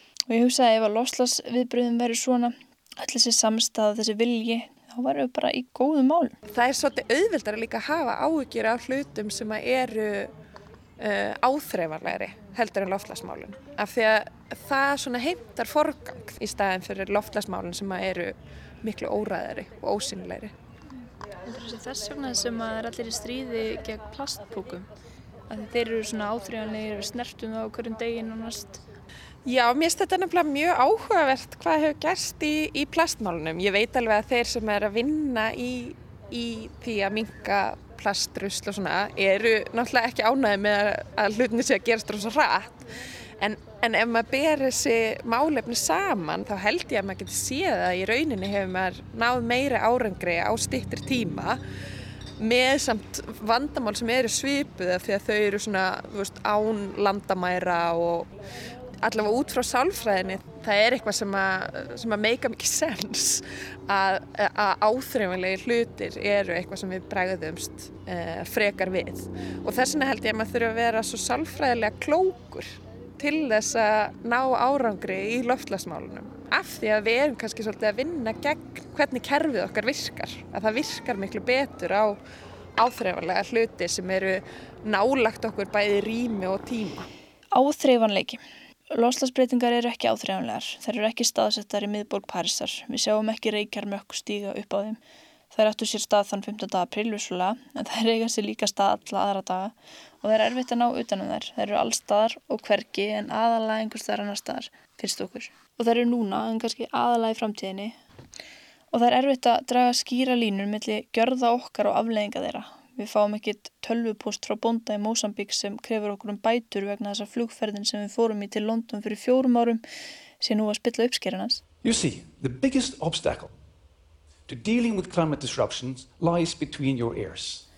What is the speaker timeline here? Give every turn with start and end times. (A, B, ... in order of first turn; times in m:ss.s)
0:00.3-0:06.4 A
0:06.5-0:10.3 B
0:11.0-0:20.5 B
0:21.4-0:24.9 A
0:25.5-0:28.8 A
0:29.4-0:42.8 B
0:43.4-0:51.6 B
0:52.4-0:58.3 B
0:59.0-1:22.2 B
1:22.8-1:27.1 B
1:27.5-1:28.4 A
1:28.9-1:35.0 A
1:35.5-1:48.0 A
1:48.9-1:59.8 A
2:00.4-2:01.6 A
2:01.8-2:03.5 C
2:04.5-2:07.6 C